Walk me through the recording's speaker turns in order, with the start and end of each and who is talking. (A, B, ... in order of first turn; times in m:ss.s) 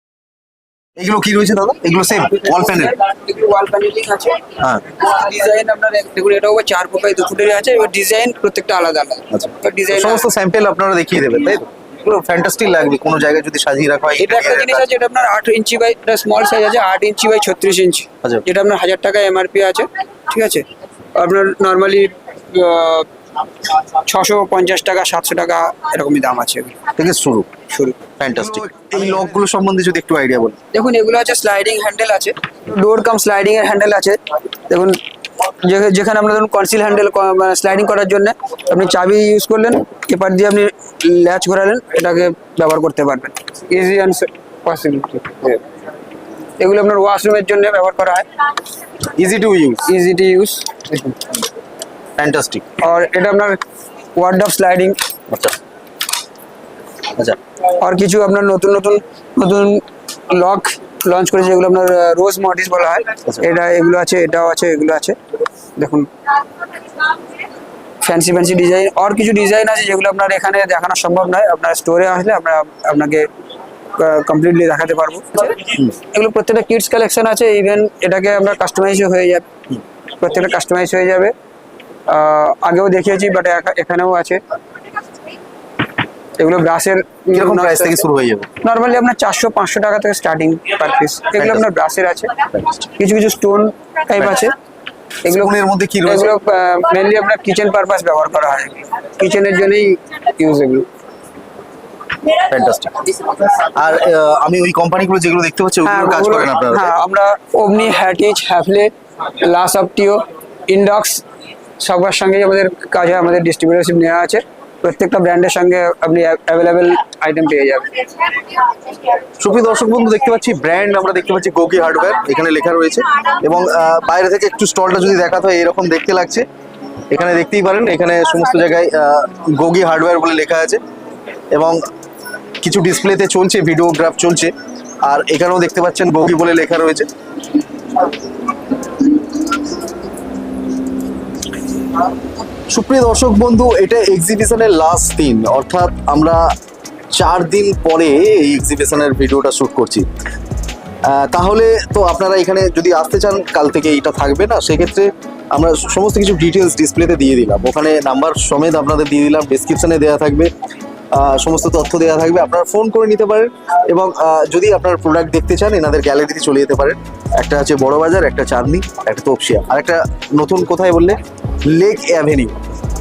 0:01.0-0:02.9 A
0:02.3-0:10.3 B
0:09.3-0:14.9 A
0:14.2-0:20.6 B
0:21.2-0:23.0 B
0:24.1-0:26.7 B
0:27.0-0:27.5 A
0:27.7-0:28.0 B
0:28.2-0:30.6 A
0:30.7-0:34.2 B
0:34.7-0:45.6 B
0:46.6-0:48.2 B
0:49.2-0:49.8 A
0:49.8-0:51.1 B
0:52.2-0:52.7 A
0:52.8-0:53.6 B
0:54.2-0:55.0 B
0:55.3-0:55.6 A
0:57.8-1:05.2 B
1:05.8-1:06.1 B
1:08.0-1:13.3 B
1:14.0-1:19.4 B
1:20.2-1:21.3 B
1:22.1-1:24.4 B
1:26.4-1:28.0 B
1:27.3-1:28.5 A
1:28.6-1:32.3 B
1:31.4-1:31.6 A
1:32.5-1:32.9 A
1:33.0-1:34.5 B
1:35.2-1:40.9 B
1:35.3-1:36.3 A
1:42.4-1:46.9 A
1:45.8-1:51.2 B
1:51.8-1:58.4 B
1:59.4-2:06.4 A
2:07.1-2:10.8 A
2:11.5-2:11.8 A
2:12.6-2:17.1 A
2:22.7-2:26.5 A
2:27.1-2:30.1 A
2:31.0-2:40.5 A
2:41.1-2:52.6 A